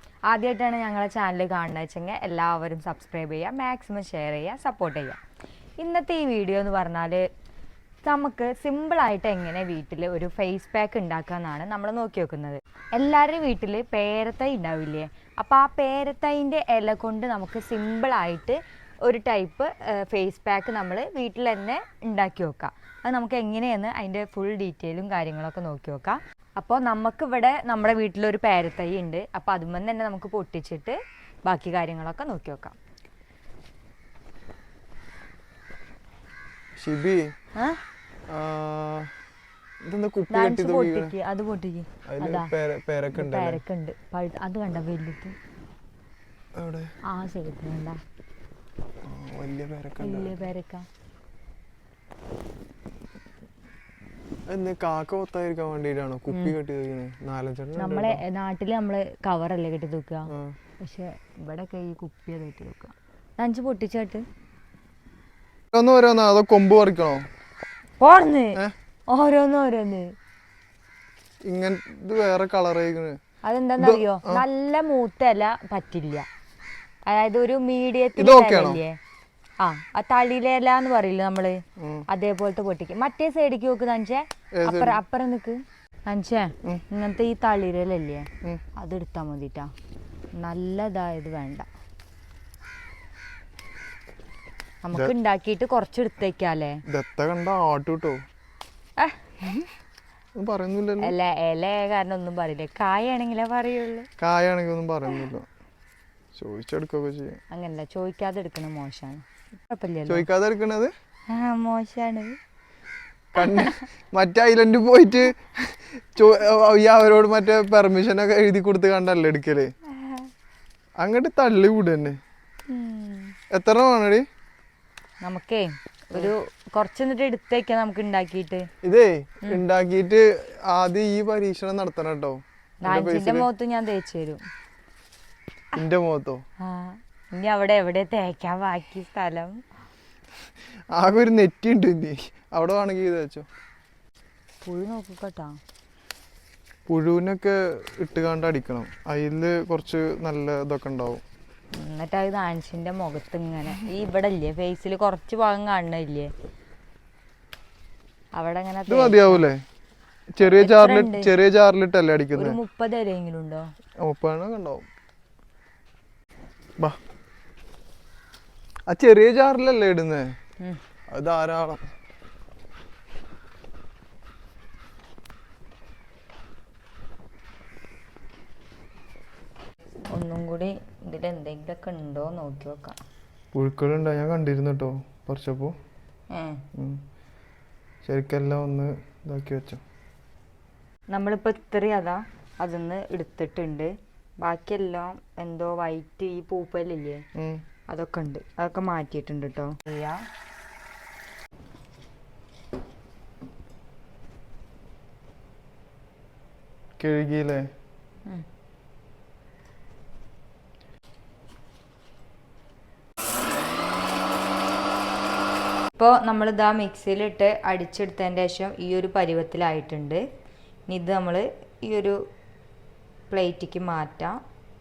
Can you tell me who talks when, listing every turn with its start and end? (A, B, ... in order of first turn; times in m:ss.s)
0:00.3-0:05.2 A
0:05.8-0:07.3 A
0:08.0-0:32.8 A
0:36.8-0:37.3 B
0:38.3-0:39.1 B
0:39.8-0:41.1 B
0:40.3-0:42.5 A
0:42.1-0:43.6 B
0:43.1-0:45.3 A
0:46.5-0:46.9 B
0:47.0-0:48.0 A
0:49.0-0:50.4 B
0:50.0-0:50.8 A
0:54.5-0:58.2 B
0:56.3-0:56.5 A
0:57.8-1:04.2 A
1:00.3-1:00.6 B
1:05.7-1:07.2 B
1:08.0-1:10.1 A
1:11.5-1:13.2 B
1:13.4-1:16.2 A
1:13.8-1:14.4 B
1:17.1-1:19.0 A
1:18.2-1:18.8 B
1:19.6-1:29.7 A
1:21.8-1:22.0 B
1:24.6-1:25.0 B
1:30.4-1:31.7 A
1:34.8-1:36.8 A
1:36.9-1:38.2 B
1:39.0-1:39.7 A
1:40.4-1:41.1 B
1:41.0-1:44.1 A
1:44.2-1:45.5 B
1:46.3-1:47.4 B
1:47.5-1:50.2 A
1:50.0-1:50.9 B
1:51.3-1:52.4 A
1:53.3-1:59.7 B
1:53.4-1:53.8 A
2:00.0-2:00.3 A
2:01.0-2:02.2 B
2:02.7-2:03.3 A
2:03.5-2:04.2 B
2:05.2-2:08.7 A
2:08.8-2:13.5 B
2:12.8-2:14.4 A
2:15.7-2:16.4 B
2:16.6-2:19.6 A
2:20.9-2:23.5 B
2:24.6-2:25.6 A
2:26.9-2:31.2 B
2:31.7-2:36.3 A
2:38.3-2:39.4 A
2:38.9-2:39.6 B
2:40.4-2:42.6 B
2:40.4-2:41.3 A
2:42.3-2:43.7 A
2:44.0-2:44.8 B
2:48.9-2:50.3 B
2:51.1-2:51.8 B
3:00.1-3:03.0 A
3:03.5-3:05.7 B
3:06.3-3:06.6 A
3:06.7-3:07.0 B
3:08.0-3:09.8 B
3:11.1-3:17.2 A
3:17.3-3:17.6 B
3:17.9-3:20.2 A
3:27.0-3:27.6 B
3:36.0-3:40.2 A
3:40.9-3:42.2 A
3:43.3-3:44.4 A